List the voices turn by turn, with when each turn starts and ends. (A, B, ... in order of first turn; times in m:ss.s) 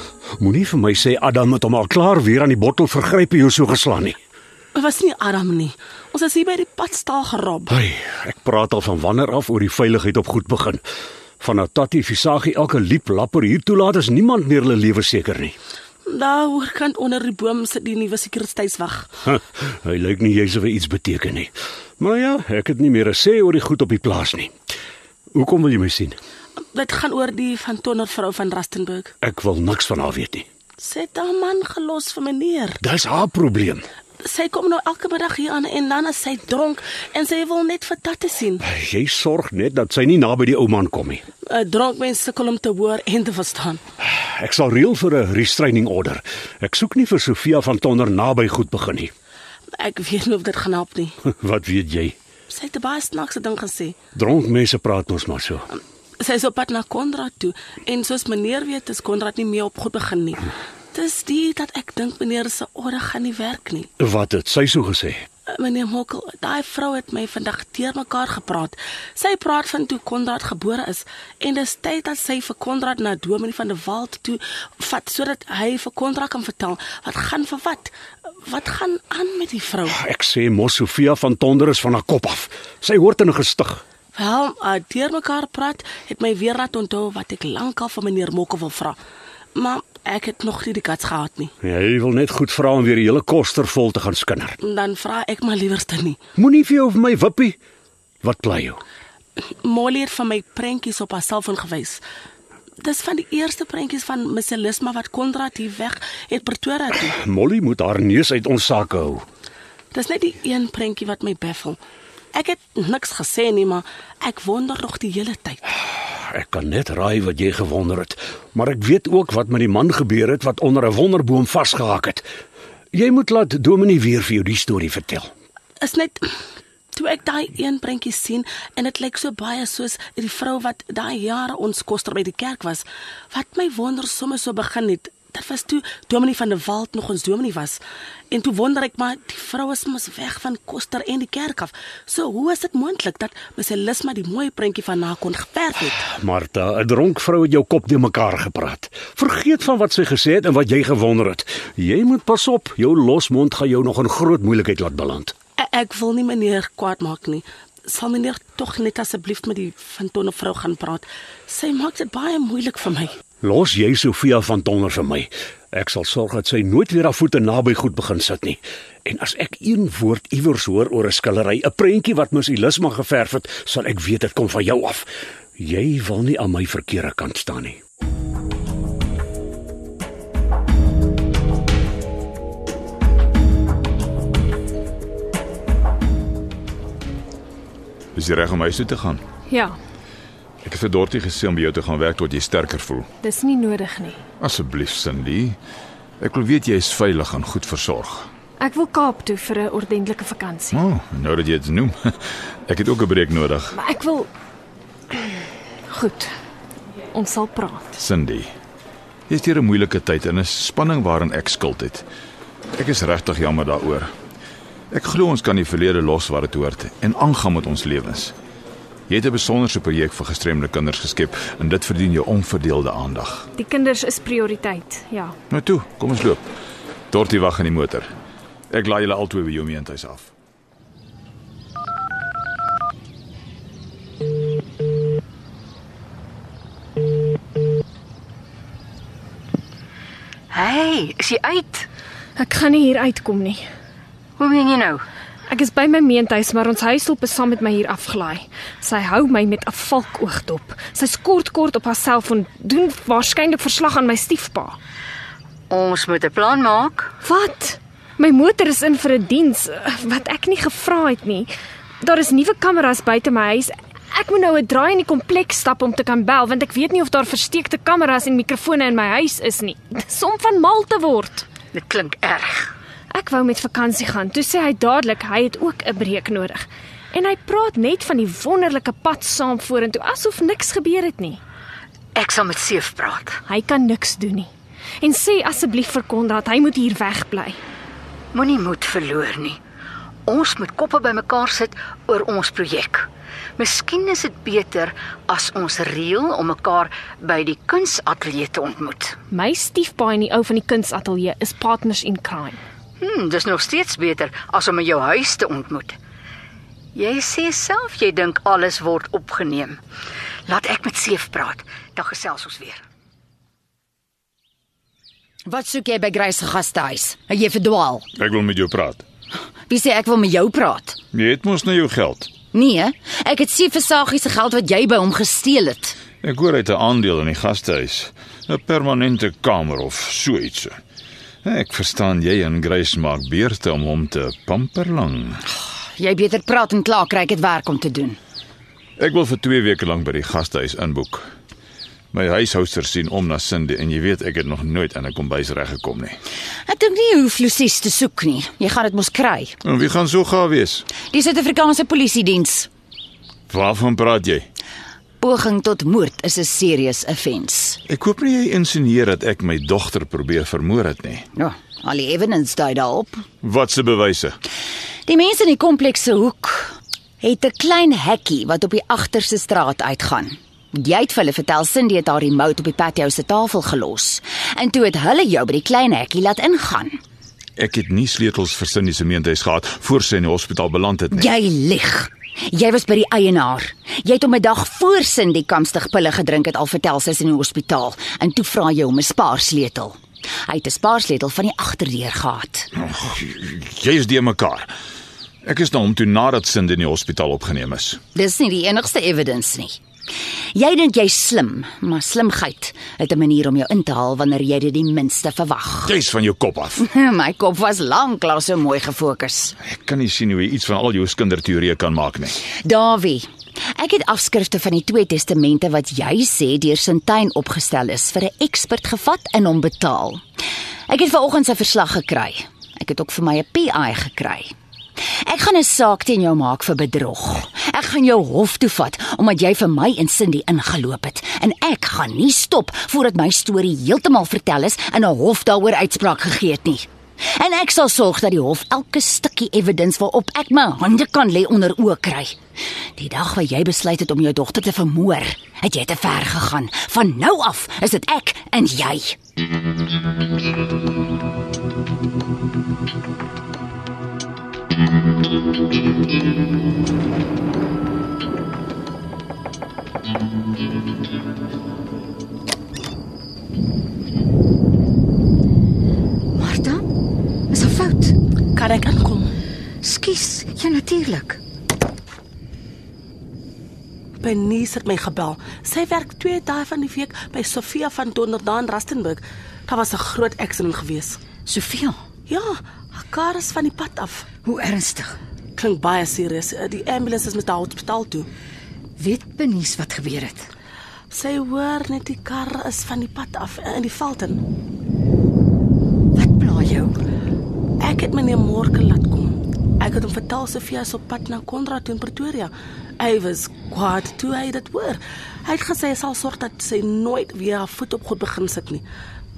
0:00.4-0:04.2 A
0:04.8-0:07.7 B
0:07.7-0:10.8 A
0:11.4-0:15.5 A
0:16.1-0:19.1 B
0:19.3-0:24.5 A
0:25.3-0:26.2 A
0:26.7-0:29.1 B
0:29.2-0:30.4 A
0:30.8-0:32.7 B
0:32.8-0:33.8 A
0:34.2-0:38.6 B
0:38.6-0:41.2 A
0:41.5-0:43.8 B
0:44.0-0:49.1 A
0:49.8-0:51.1 B
0:51.2-0:52.2 A
0:52.5-0:54.0 B
0:54.1-0:55.7 A
0:56.2-1:00.4 B
1:00.9-1:03.9 B
1:04.0-1:05.2 A
1:05.6-1:17.9 B
1:18.5-1:19.9 B
1:19.8-1:23.8 A
1:24.2-1:29.0 B
1:29.6-1:31.5 B
1:31.6-1:34.6 A
1:34.6-1:36.2 B
1:36.4-1:37.6 A
1:38.2-1:38.8 A
1:39.6-1:42.0 B
1:42.8-1:47.0 B
1:47.0-1:49.2 A
1:49.9-1:51.8 B
1:52.3-1:55.6 B
1:56.0-2:02.2 A
2:02.9-2:05.3 A
2:05.8-2:06.2 B
2:06.9-2:17.8 B
2:18.3-2:26.0 B
2:26.0-2:35.3 A
2:35.6-2:43.1 B
2:43.4-2:57.8 A
3:08.1-3:09.2 C
3:09.5-3:09.8 D
3:10.6-3:13.1 C
3:13.2-3:14.2 D
3:14.4-3:15.6 C
3:16.2-3:18.3 C
3:18.6-3:20.8 D
3:20.7-3:23.8 C
3:23.7-3:24.3 D
3:25.1-3:26.3 D
3:27.1-3:27.9 D
3:28.0-3:28.5 C
3:29.3-3:32.0 C
3:32.8-3:34.1 C
3:34.9-3:38.3 C
3:39.1-3:43.5 C
3:43.6-3:45.4 D
3:45.5-3:46.4 C
3:47.1-3:48.1 C
3:48.7-3:50.3 C
4:00.5-4:01.9 E
4:02.4-4:03.6 D
4:04.4-4:05.0 E
4:05.5-4:14.8 D
4:15.7-4:17.1 E
4:17.2-4:31.5 D
4:31.7-4:32.7 E
4:33.1-4:41.4 D
4:42.2-4:43.4 E
4:43.4-4:47.6 D
4:48.3-4:49.6 E
4:50.3-4:59.2 E
4:59.3-5:02.6 D
5:03.0-5:06.0 E
5:06.9-5:09.8 E
5:10.5-5:12.8 E
5:15.4-5:18.1 F
5:18.2-5:19.0 C
5:19.7-5:21.0 F
5:21.1-5:22.4 C
5:22.5-5:26.0 F
5:26.2-5:30.8 C
5:31.4-5:35.4 C
5:35.5-5:38.2 F
5:39.0-5:41.2 C
5:42.1-5:46.2 C
5:46.6-5:49.6 F
5:49.6-5:50.9 C
5:51.0-5:52.7 F
5:53.5-5:54.4 C
5:55.2-5:57.8 F
5:57.9-6:01.3 C
6:01.3-6:03.2 F
6:03.4-6:04.4 C
6:05.1-6:17.0 F
6:17.6-6:21.3 C
6:21.1-6:32.7 F
6:32.8-6:34.7 C
6:35.4-6:38.0 C
6:38.1-6:39.8 F
6:40.5-6:46.0 F
6:45.8-6:46.8 C
6:46.8-6:49.5 F
6:49.6-6:52.4 C
6:52.5-7:00.2 F
7:00.9-7:22.4 F
7:23.0-7:29.2 F
7:46.3-7:46.8 E
7:47.5-7:48.2 E
7:48.6-7:49.3 B
7:49.8-7:51.4 E
7:54.2-8:01.2 B
8:01.4-8:02.0 E
8:03.1-8:04.2 B
8:04.4-8:05.2 E
8:05.6-8:08.3 B
8:09.0-8:10.5 E
8:11.1-8:14.4 B
8:16.2-8:17.0 E
8:17.8-8:28.8 B